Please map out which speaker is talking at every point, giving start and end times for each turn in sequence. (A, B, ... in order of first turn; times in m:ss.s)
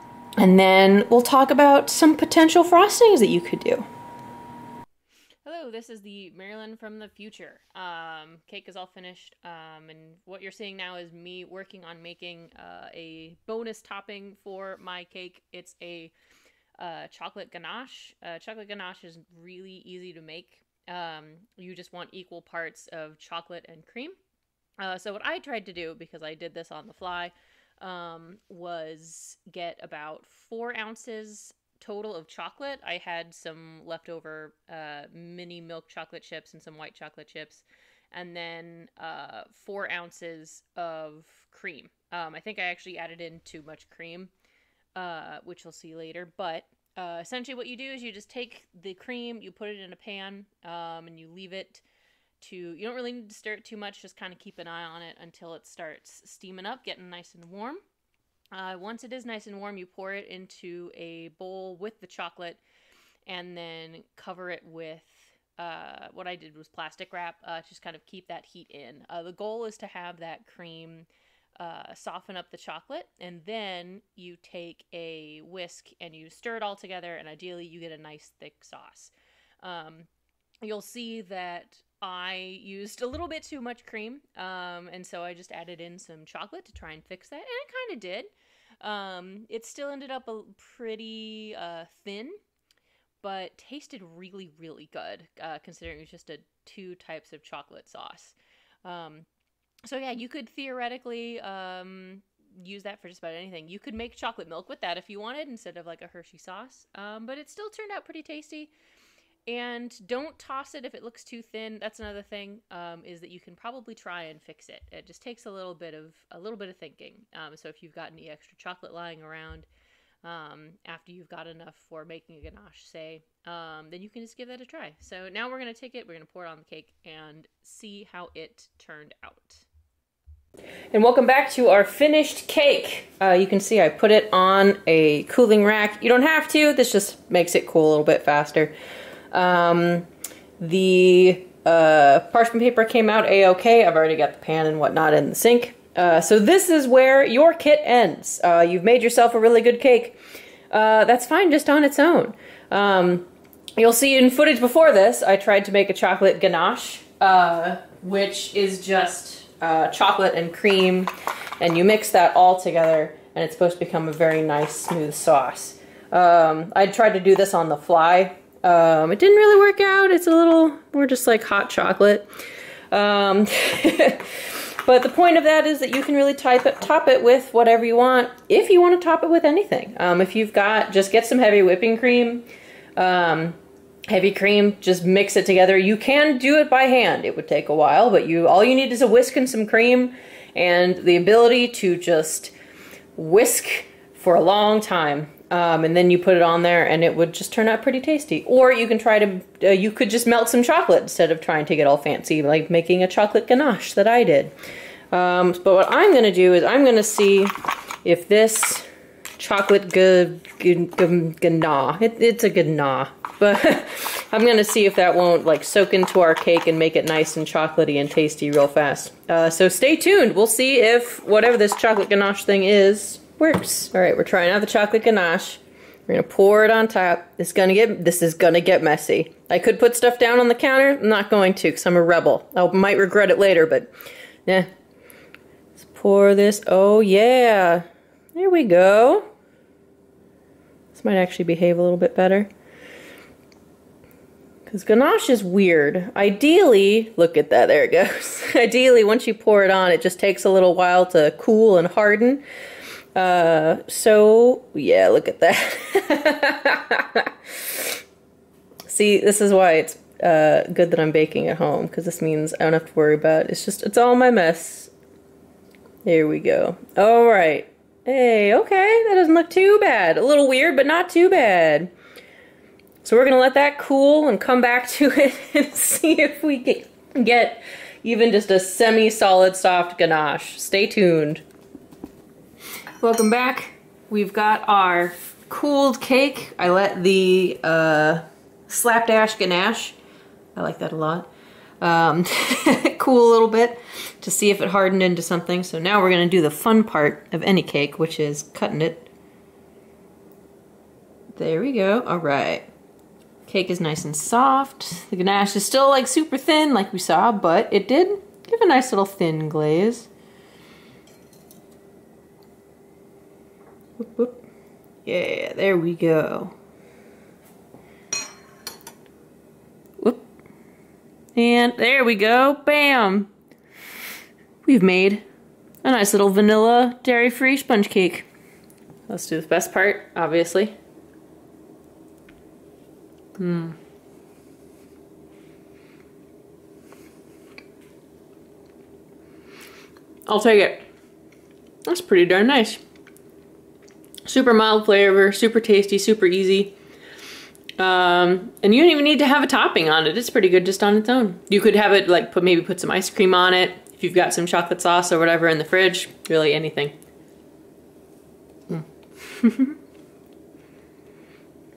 0:00.4-0:03.9 A
0:05.4-0:16.1 A
0:16.8-0:24.2 A
0:24.8-0:44.3 A
0:45.0-0:51.8 A
0:52.4-0:57.8 A
0:58.5-1:02.6 A
1:03.3-1:20.1 A
1:20.6-1:28.3 A
1:28.8-1:32.4 A
1:33.2-1:39.3 A
1:39.8-1:48.7 A
1:49.5-1:59.7 A
2:00.2-2:09.6 A
2:10.9-2:18.7 A
2:19.3-2:20.1 A
2:20.6-2:30.2 A
2:30.7-2:52.3 A
2:52.9-3:12.5 A
3:13.2-3:24.5 A
3:25.1-3:27.5 A
3:28.0-3:28.9 A
3:29.4-3:53.9 A
3:55.8-3:59.3 A
4:00.9-4:02.5 A
4:04.7-4:12.4 A
4:13.2-4:18.0 A
4:18.9-4:24.9 A
4:26.0-4:31.9 A
4:33.0-4:41.4 A
4:43.0-4:50.0 A
4:50.6-4:51.3 A
4:51.8-4:59.1 A
5:01.4-5:02.7 A
5:03.4-5:10.1 A
5:14.0-5:14.4 A
5:15.0-5:16.6 A
5:21.4-5:23.3 A
5:24.6-5:25.2 A
5:25.8-5:28.3 A
5:29.1-5:30.8 A
5:33.4-5:33.8 A
5:40.3-5:40.9 A
5:41.9-5:42.8 A
5:44.3-5:46.7 A
5:47.8-5:57.0 A
5:58.7-5:59.8 A